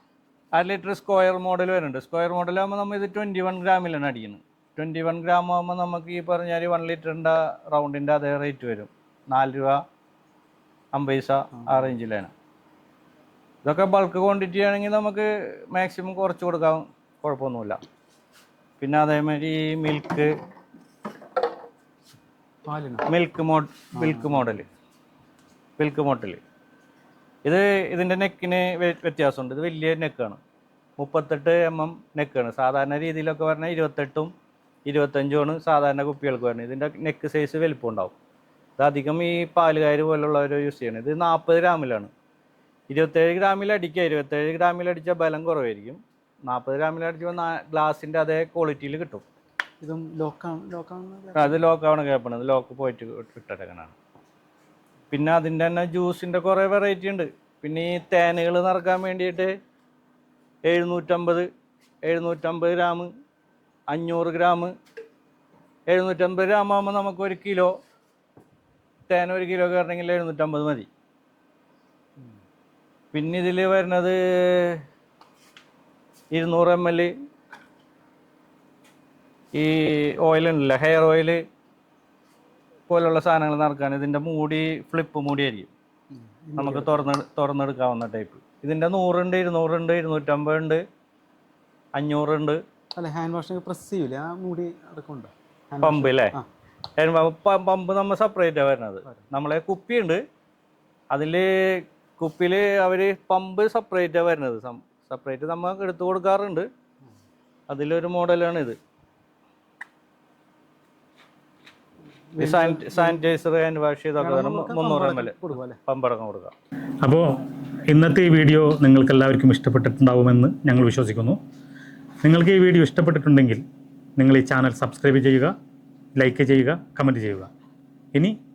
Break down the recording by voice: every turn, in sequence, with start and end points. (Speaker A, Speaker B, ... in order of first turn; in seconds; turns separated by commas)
Speaker A: 0.5-9.8, Speaker A: 10.9-12.3, Speaker A: 13.6-17.8, Speaker A: 18.8-20.3, Speaker B: 22.6-23.1, Speaker A: 23.1-24.7, Speaker B: 23.9-24.5, Speaker A: 25.8-26.4, Speaker A: 27.4-30.4, Speaker A: 31.0-34.3, Speaker A: 34.9-38.1, Speaker A: 38.8-42.1, Speaker A: 42.9-49.2, Speaker B: 49.8-51.6, Speaker A: 51.3-54.0, Speaker A: 55.1-59.5, Speaker A: 60.7-61.5, Speaker A: 62.0-63.1, Speaker A: 63.9-64.7, Speaker A: 65.9-67.7, Speaker A: 69.1-70.9, Speaker A: 73.1-74.8, Speaker A: 76.3-77.1, Speaker A: 79.5-81.4, Speaker A: 82.9-85.7, Speaker B: 86.1-87.1, Speaker A: 86.6-90.8, Speaker A: 92.0-92.6, Speaker B: 93.0-96.5, Speaker A: 95.8-96.4, Speaker A: 97.0-100.2, Speaker A: 101.1-106.7, Speaker A: 107.7-108.8, Speaker B: 112.3-113.2, Speaker A: 112.4-116.5, Speaker B: 114.2-115.8, Speaker C: 117.9-121.4, Speaker C: 122.2-123.6, Speaker C: 124.2-125.5, Speaker C: 126.2-127.5